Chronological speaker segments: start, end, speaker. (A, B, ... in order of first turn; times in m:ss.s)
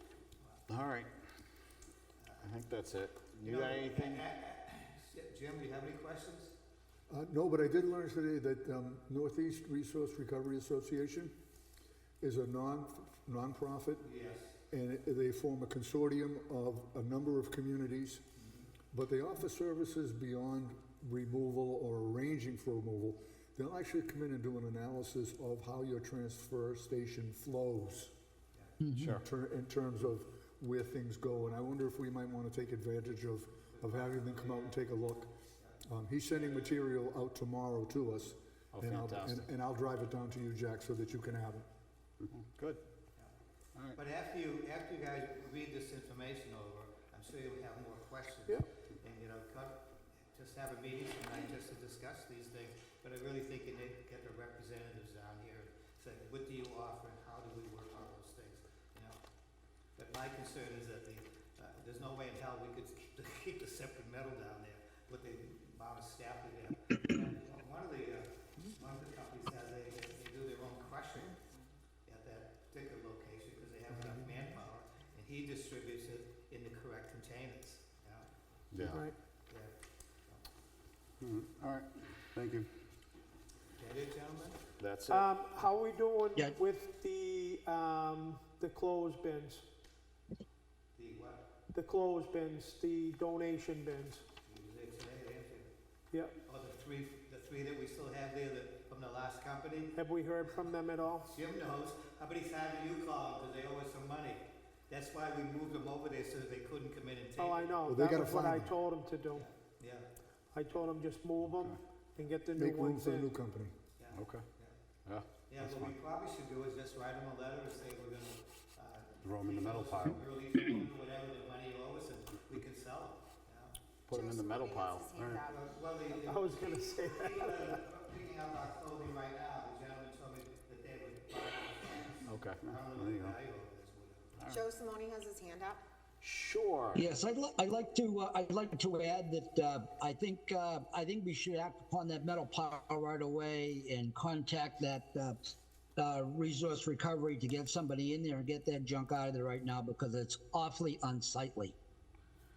0:00.4-0:00.7 A
0:00.7-0:01.1 B
0:02.4-0:04.2 B
0:03.4-0:06.6 A
0:07.1-0:11.3 C
0:12.2-0:14.1 C
0:14.0-0:14.6 A
0:14.7-0:18.2 C
0:18.4-0:18.7 A
0:18.9-0:28.1 C
0:29.0-0:29.2 B
0:29.0-0:41.7 C
0:33.7-0:35.0 A
0:35.6-0:36.8 A
0:38.7-0:39.5 B
0:42.2-0:42.8 B
0:44.0-0:59.2 A
1:00.0-1:11.4 A
1:12.1-1:18.3 A
1:18.7-1:19.0 B
1:19.5-1:19.7 A
1:21.2-1:22.7 D
1:23.8-1:24.6 A
1:24.8-1:25.3 B
1:25.1-1:29.6 E
1:31.0-1:31.4 A
1:31.7-1:34.2 E
1:34.5-1:35.7 A
1:36.5-1:40.0 A
1:40.0-1:41.2 E
1:40.5-1:47.8 A
1:47.4-1:49.3 E
1:47.8-1:48.8 C
1:49.3-1:50.1 A
1:50.6-1:53.1 E
1:51.4-1:51.8 B
1:52.6-1:53.8 C
1:54.0-1:54.8 A
1:54.1-1:54.5 B
1:55.0-1:56.0 B
1:55.5-2:03.8 A
1:59.2-2:00.2 D
2:04.1-2:05.2 B
2:04.1-2:05.6 F
2:05.1-2:05.4 D
2:05.4-2:14.4 A
2:06.2-2:07.8 E
2:12.2-2:12.6 B
2:12.8-2:13.4 D
2:14.4-2:14.6 B
2:14.5-2:15.8 F
2:16.2-2:17.1 B
2:17.0-2:31.8 G